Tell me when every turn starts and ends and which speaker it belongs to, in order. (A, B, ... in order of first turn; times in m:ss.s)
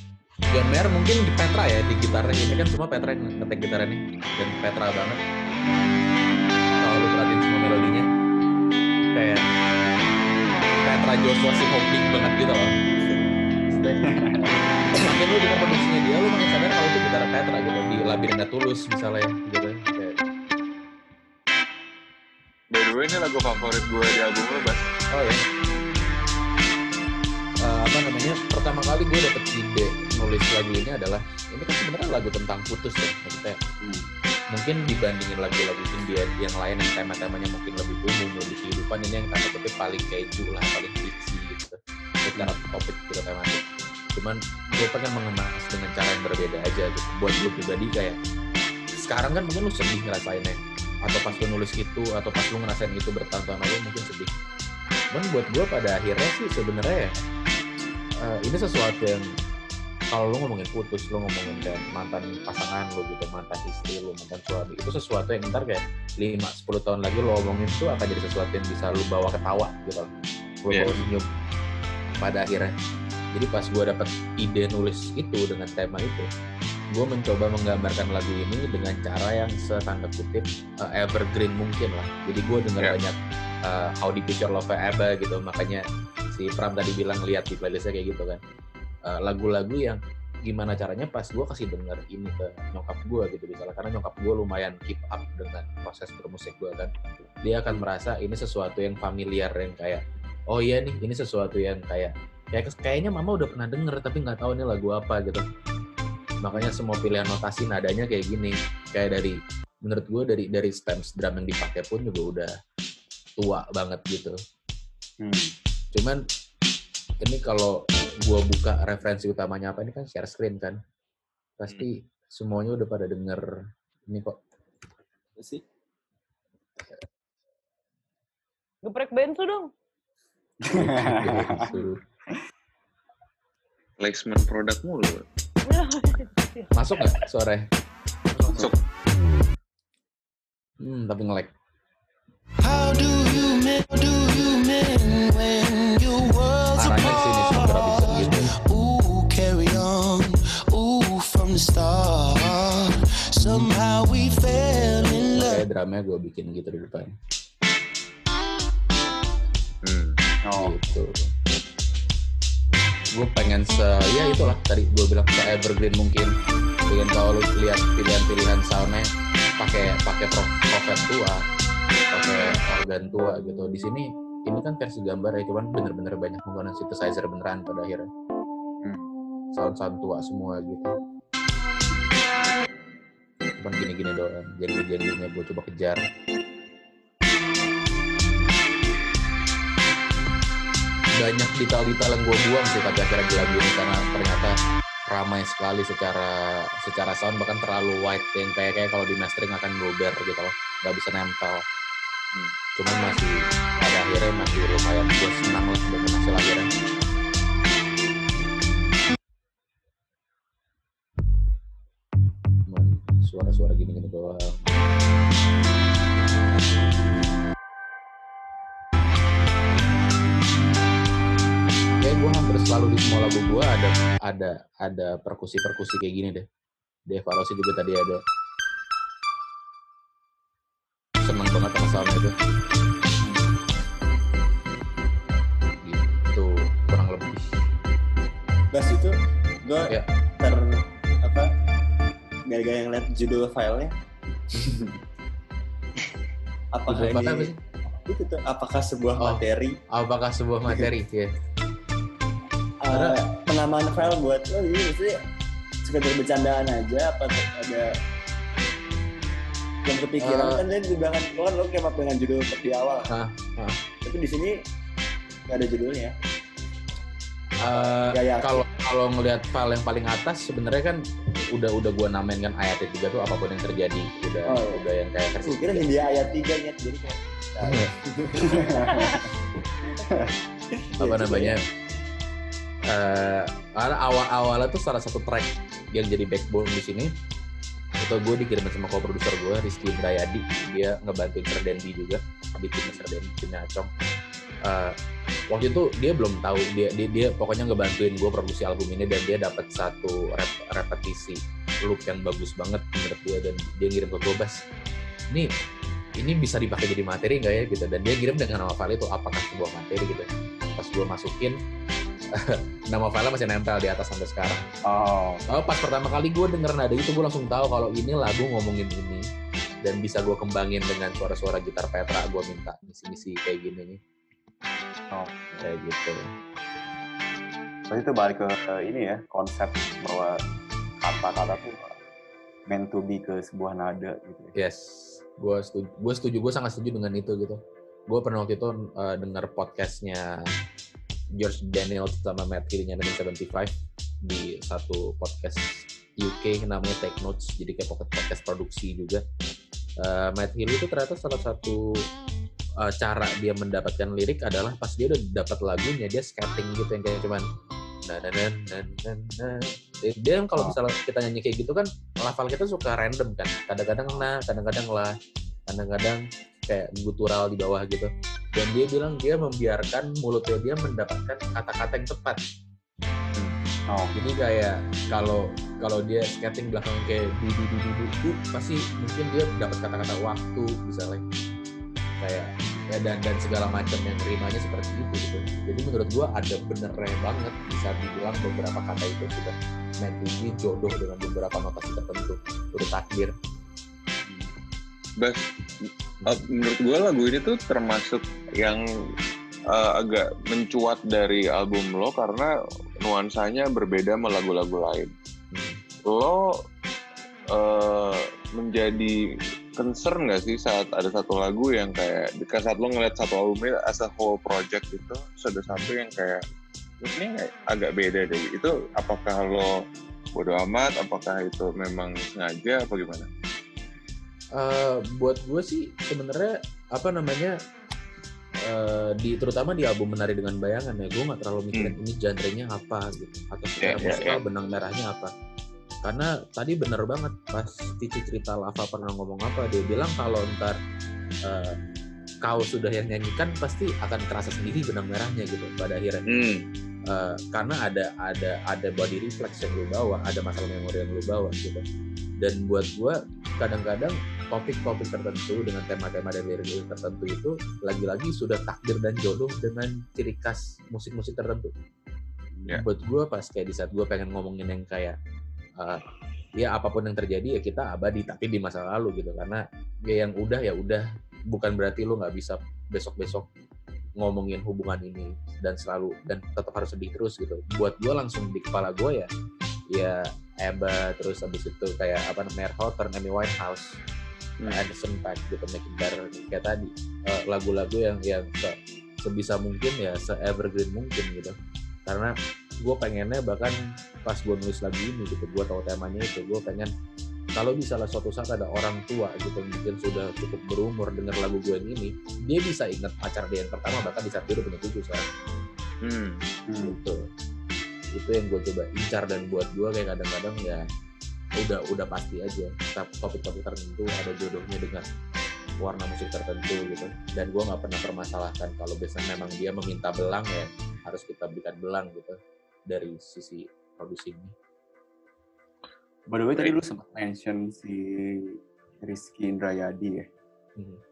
0:00.5-0:05.2 A
0:06.8-0:08.1 A
0:09.1-0:09.5 A
0:10.8-0:12.7 A
0:13.7-0:14.5 B
0:15.0-0:20.2 A
0:22.7-0:24.8 C
0:25.1-0:25.4 A
0:27.6-0:33.6 A
0:33.8-0:34.1 B
0:34.5-0:43.6 A
0:42.4-0:42.6 B
0:44.1-0:48.2 A
0:49.0-0:54.3 A
0:55.1-0:57.1 A
0:58.2-0:59.3 A
1:00.1-1:11.3 A
1:10.7-1:11.1 C
1:12.1-1:12.7 A
1:13.3-1:16.3 A
1:16.9-1:28.4 A
1:29.0-1:36.9 A
1:37.4-1:45.4 A
1:46.4-1:52.5 A
1:53.4-1:54.3 A
1:55.2-1:55.5 B
1:55.9-1:56.2 A
1:57.2-2:00.8 A
2:01.6-2:03.4 A
2:04.1-2:04.4 A
2:08.8-2:09.7 D
2:10.6-2:11.8 B
2:10.7-2:12.0 A
2:14.0-2:15.2 C
2:15.6-2:16.7 D
2:16.7-2:17.7 A
2:18.5-2:18.8 C
2:20.8-2:21.5 A
2:22.6-2:35.6 E
2:26.8-2:28.6 A
2:35.1-2:37.1 A
2:39.8-2:40.2 C
2:40.4-2:40.8 B
2:40.6-2:41.3 A
2:43.1-2:46.3 A
2:46.9-2:49.1 A
2:49.6-2:51.4 A
2:52.1-2:58.1 A
2:59.5-3:00.9 A
3:03.6-3:06.0 A
3:11.2-3:14.5 A
3:15.1-3:21.6 A
3:22.8-3:26.7 A
3:32.7-3:34.7 A
3:42.0-3:46.4 A
3:47.1-3:48.2 A
3:51.2-3:52.3 A
3:53.2-3:53.5 B
3:55.8-3:57.5 A
3:58.7-4:01.5 F
4:02.5-4:03.9 F
4:06.7-4:07.5 F
4:06.9-4:07.6 A
4:08.0-4:09.8 F
4:09.2-4:11.3 A
4:12.8-4:15.2 F
4:12.9-4:13.2 A
4:15.8-4:17.9 F
4:19.8-4:23.1 F
4:20.2-4:20.6 A
4:23.1-4:23.8 A
4:24.0-4:24.5 F
4:25.5-4:26.1 F
4:27.6-4:31.0 A
4:28.0-4:28.6 F
4:31.5-4:35.9 A
4:34.4-4:34.8 F
4:35.4-4:39.3 F
4:37.6-4:37.9 A
4:38.4-4:39.2 B
4:40.7-4:41.6 F
4:41.0-4:41.6 A
4:42.9-4:47.1 A
4:48.0-4:53.9 A
4:54.6-4:55.0 A
4:55.5-5:04.6 A
5:06.2-5:11.6 A
5:12.3-5:14.7 A
5:14.8-5:15.4 B
5:15.5-5:19.2 A
5:19.8-5:24.0 A
5:25.1-5:25.7 B
5:25.6-5:26.3 A
5:27.9-5:30.4 B
5:31.0-5:32.0 B
5:32.7-5:34.5 B
5:34.6-5:40.3 A
5:41.3-5:49.2 A
5:50.0-5:52.1 A
5:52.8-5:57.4 A
5:58.0-6:05.2 A
6:05.7-6:12.4 A
6:14.1-6:21.2 A
6:22.2-6:33.3 A
6:35.2-6:35.4 C
6:36.2-6:38.8 C
6:39.7-6:42.5 C
6:43.0-6:45.1 C
6:45.5-6:45.8 A
6:46.0-6:46.6 C
6:47.5-6:49.2 C
6:49.8-6:56.4 C
6:57.0-6:59.7 C
7:00.3-7:03.3 C
7:04.5-7:07.5 A
7:08.6-7:15.3 A
7:13.8-7:14.4 C
7:16.0-7:20.8 A
7:21.4-7:21.8 A
7:22.4-7:26.4 A
7:26.3-7:26.6 C
7:27.1-7:31.8 A
7:32.4-7:41.7 A
7:42.7-7:45.2 A
7:45.8-7:46.0 A
7:46.5-7:53.5 A
7:54.2-7:59.3 A
7:59.9-8:04.0 A
8:04.7-8:11.5 A
8:12.0-8:16.9 A
8:17.5-8:25.2 A
8:26.0-8:26.4 C
8:26.7-8:27.0 B
8:26.8-8:27.2 A
8:28.1-8:30.8 A
8:31.6-8:35.0 A
8:35.8-8:44.5 A
8:46.3-8:50.2 B